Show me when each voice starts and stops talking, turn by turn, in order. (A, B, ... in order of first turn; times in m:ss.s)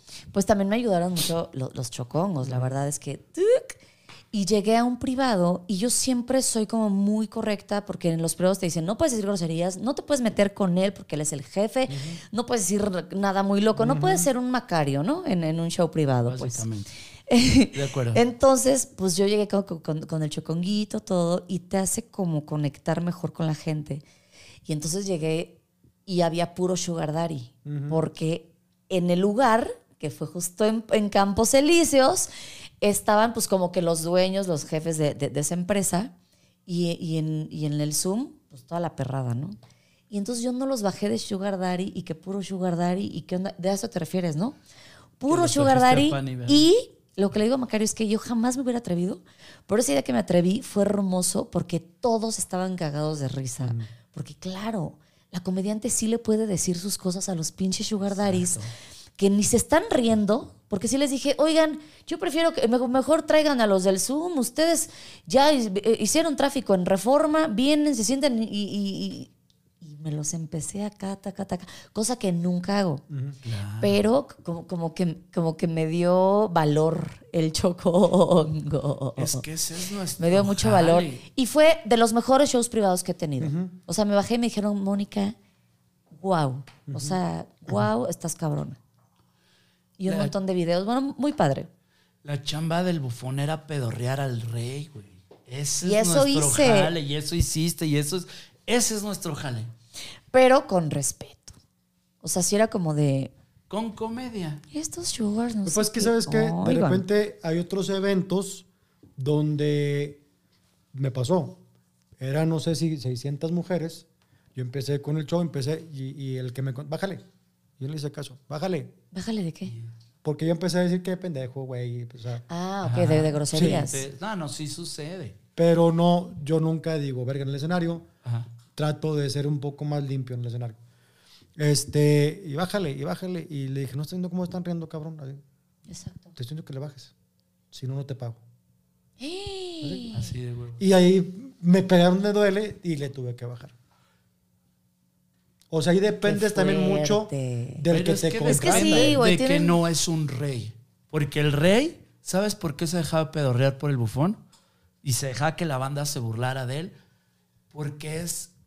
0:00.3-0:03.8 A
0:04.3-0:16.6 A
0:11.9-0:12.2 B
0:13.8-0:14.3 B
0:16.3-0:16.9 C
0:17.3-0:24.0 A
0:17.7-0:18.2 C
0:24.6-0:32.3 A
0:27.6-0:28.0 B
0:32.8-0:36.1 A
0:36.7-0:39.6 A
0:40.1-0:44.6 A
0:45.2-0:58.7 A
0:45.3-0:46.6 C
0:53.6-0:53.9 B
0:58.1-0:58.7 C
0:59.2-1:09.3 A
1:09.8-1:13.0 A
1:13.1-1:13.4 B
1:13.4-1:14.0 C
1:13.8-1:19.4 A
1:19.2-1:21.2 C
1:20.2-1:25.4 A
1:23.4-1:23.8 B
1:26.1-1:28.8 A
1:26.9-1:27.2 B
1:30.0-1:31.7 A
1:30.1-1:30.3 C
1:32.2-1:39.7 C
1:35.8-1:36.9 A
1:40.3-1:41.6 A
1:42.2-1:43.3 A
1:43.7-1:44.6 C
1:44.7-1:47.0 A
1:45.7-1:48.7 B
1:49.2-1:50.2 B
1:50.9-1:51.6 B
1:52.2-1:57.2 B
1:57.8-1:58.9 B
1:59.1-1:59.8 A
2:00.2-2:02.4 B
2:02.5-2:04.0 A
2:02.8-2:05.4 C
2:03.5-2:03.9 B
2:05.6-2:08.1 B
2:08.8-2:10.8 B
2:11.6-2:15.4 B
2:15.9-2:16.3 A
2:16.4-2:17.1 B
2:17.7-2:18.4 B
2:19.2-2:20.3 A
2:20.1-2:20.8 C
2:20.8-2:23.7 B
2:25.7-2:29.2 B
2:26.2-2:27.9 A
2:27.9-2:34.4 C
2:28.4-2:29.8 A
2:35.0-2:36.9 C
2:37.7-2:38.5 C